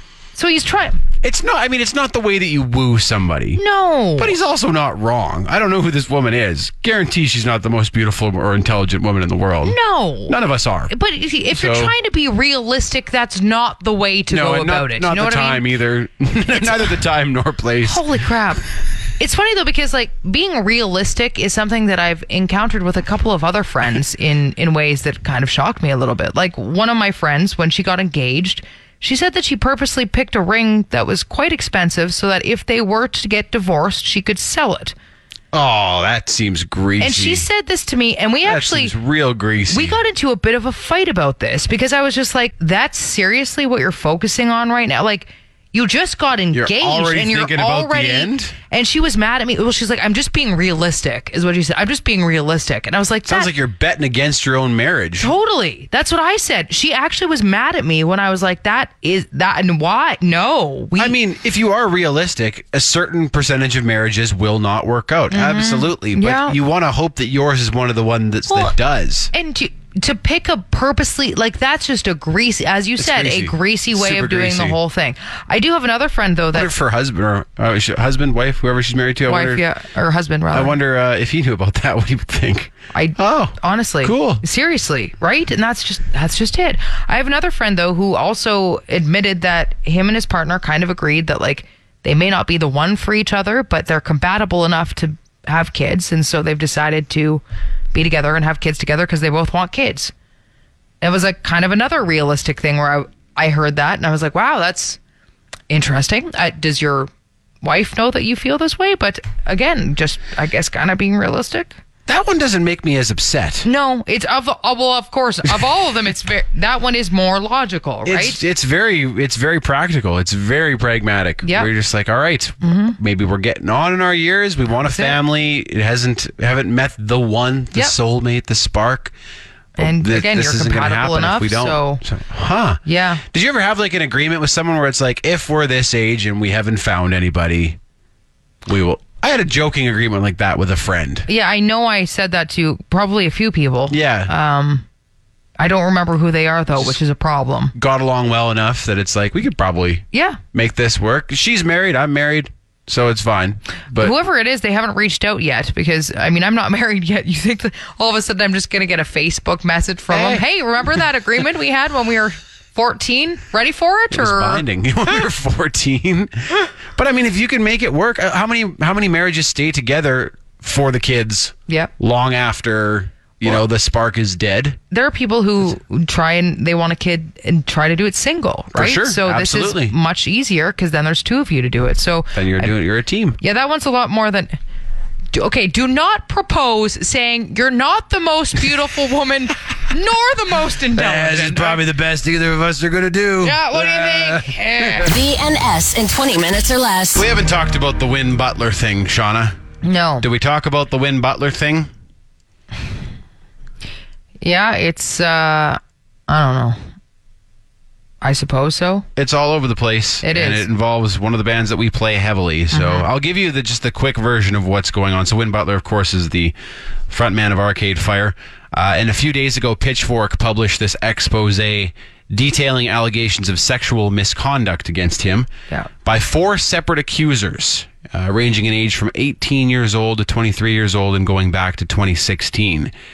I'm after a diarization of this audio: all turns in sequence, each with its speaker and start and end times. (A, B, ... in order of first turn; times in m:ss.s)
0:00.4-0:01.0 A
0:01.2-0:03.6 B
0:03.6-0:04.3 A
0:04.2-0:10.9 B
0:09.6-0:10.4 A
0:10.9-0:15.7 A
0:11.5-0:11.9 B
0:14.3-0:18.0 B
0:17.8-0:18.6 A
0:19.2-0:35.0 A
0:35.5-0:37.4 B
0:37.0-0:39.0 A
0:38.4-0:40.0 B
0:39.7-0:53.5 A
0:46.5-0:48.6 B
0:53.3-0:55.3 B
0:55.2-1:01.1 A
1:01.0-1:09.3 B
1:05.3-1:06.6 A
1:09.3-1:16.7 A
1:13.0-1:14.8 B
1:16.5-1:19.6 B
1:19.3-1:20.8 A
1:20.5-1:24.4 B
1:22.9-1:37.4 A
1:37.9-1:40.1 A
1:41.0-1:45.0 A
1:45.7-1:47.1 A
1:47.6-1:51.7 A
1:52.1-1:53.7 B
1:53.6-1:58.4 A
1:58.0-2:09.1 B
2:01.4-2:01.7 A
2:02.6-2:03.0 A
2:04.8-2:05.2 A
2:09.8-2:17.8 B
2:09.8-2:12.0 A
2:12.8-2:13.2 A
2:18.6-2:21.3 B
2:21.3-2:24.8 A
2:23.9-2:24.3 B
2:25.6-2:27.7 A
2:27.8-2:34.2 B
2:30.1-2:30.4 A
2:34.0-2:44.6 A
2:40.1-2:40.5 B
2:44.1-2:54.8 B
2:54.9-3:02.7 A
2:58.7-3:00.0 B
3:02.3-3:03.4 B
3:03.4-3:04.6 A
3:05.3-3:11.8 A
3:10.9-3:15.1 B
3:13.4-3:15.1 A
3:15.1-3:17.3 C
3:17.1-3:19.6 B
3:19.8-3:20.3 A
3:20.2-3:21.9 B
3:24.4-3:26.8 A
3:28.2-3:29.1 A
3:29.2-3:36.5 B
3:30.2-3:30.7 A
3:32.7-3:33.1 A
3:37.1-3:45.5 B
3:46.0-3:52.9 B